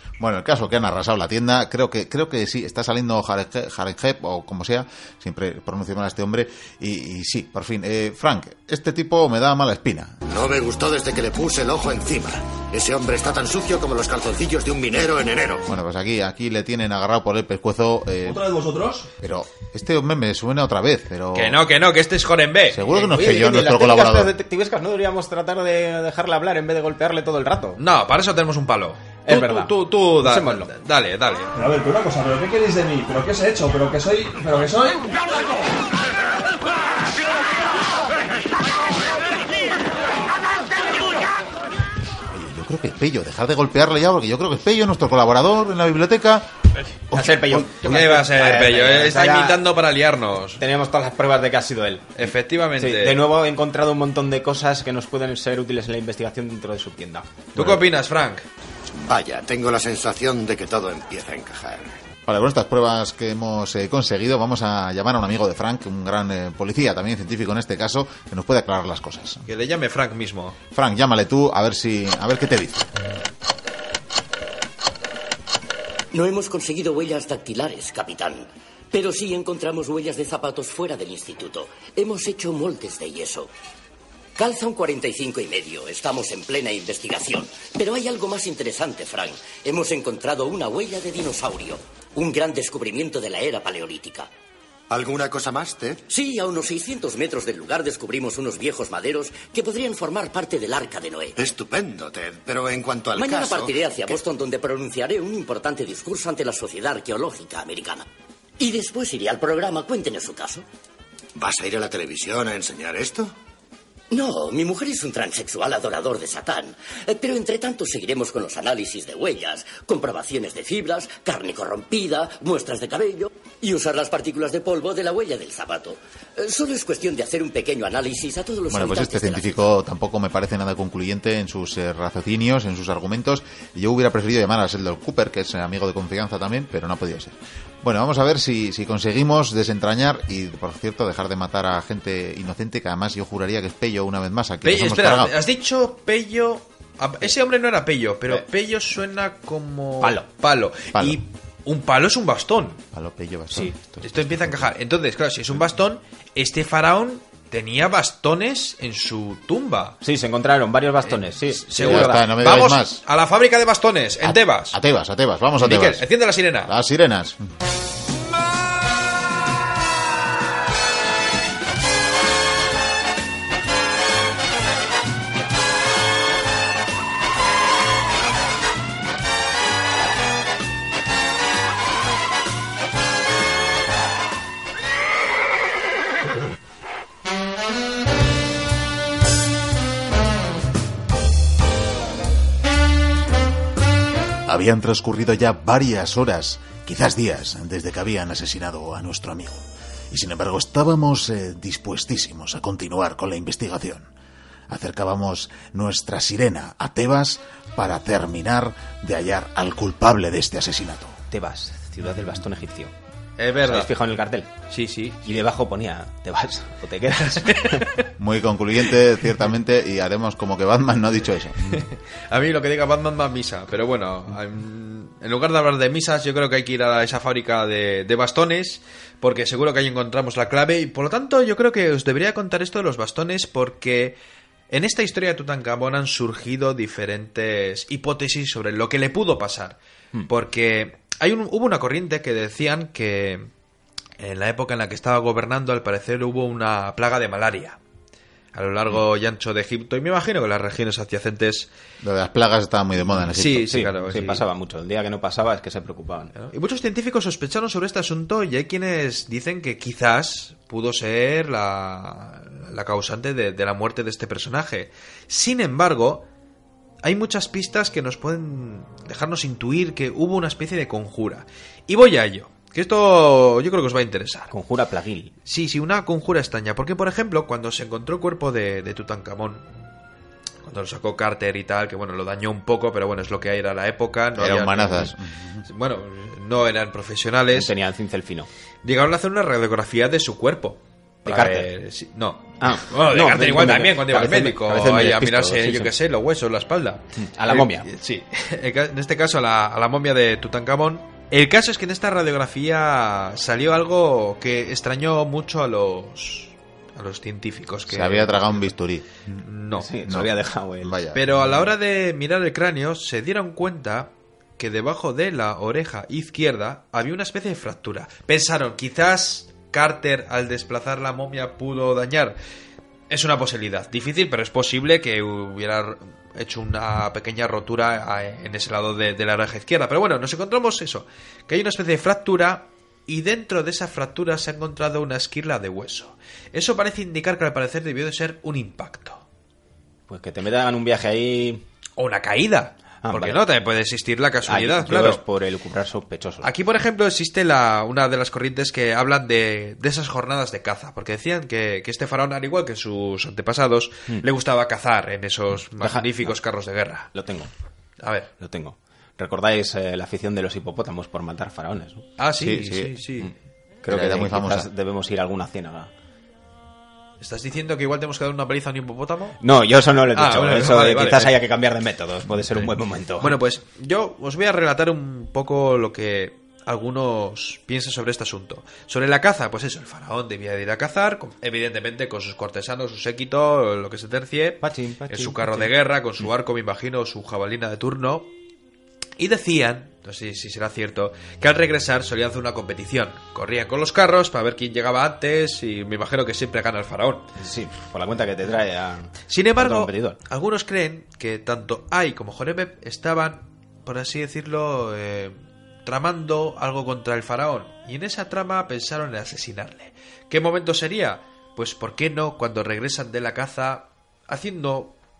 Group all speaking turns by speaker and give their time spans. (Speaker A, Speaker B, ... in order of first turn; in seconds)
Speaker A: 0.2-10.2, 15.7-18.5, 19.2-21.6, 22.7-24.3, 42.3-46.5, 47.1-47.7, 62.3-69.4, 70.7-72.9, 128.7-145.3, 150.9-151.2, 152.9-154.4, 161.8-163.0, 164.2-166.1, 166.6-167.4, 194.4-204.1, 204.7-211.2, 218.2-221.8, 252.0-253.8, 284.3-285.6, 307.9-309.4, 310.8-311.6, 362.4-362.9, 363.9-364.7
Speaker B: 10.3-15.7, 59.0-61.9, 94.9-96.0, 101.4-104.2, 111.3-113.3
Speaker C: 18.2-19.1, 31.5-35.1
Speaker D: 21.3-22.9, 27.8-31.5, 47.8-50.6, 52.2-53.2, 57.5-58.4, 69.5-70.6, 144.6-152.8, 154.0-160.0, 161.1-164.8, 165.6-166.7, 213.4-213.9, 214.7-215.2, 217.5-218.0, 221.6-234.2, 234.7-243.5, 244.2-247.8, 248.5-251.7, 253.3-254.4, 256.4-266.2, 267.0-274.5, 275.4-279.6, 280.6-285.1, 285.6-287.7, 288.8-308.7, 309.4-310.0, 311.1-322.4, 323.1-339.2, 342.0-345.2, 346.4-357.1, 358.0-358.3, 362.2-363.3, 367.2-369.4, 370.1-371.4, 373.2-388.3, 389.2-397.3, 399.3-414.9
Speaker E: 23.1-27.8, 29.2-30.7, 47.1-49.6, 50.6-57.4, 150.0-150.2, 160.0-162.2, 211.3-212.9, 213.6-214.5, 215.2-217.9, 253.6-256.4, 274.5-275.3, 287.5-288.5, 291.2-291.7, 292.6-295.9, 297.2-297.9, 309.8-311.0, 340.1-341.6, 343.0-343.4, 344.4-346.5, 355.8-356.4, 357.1-357.5, 358.4-362.0, 363.8-365.9, 369.4-373.4, 384.6-385.7, 397.4-400.2
Speaker F: 76.1-83.5, 84.3-94.3, 96.1-101.4, 103.1-108.0, 108.6-110.6, 114.1-129.5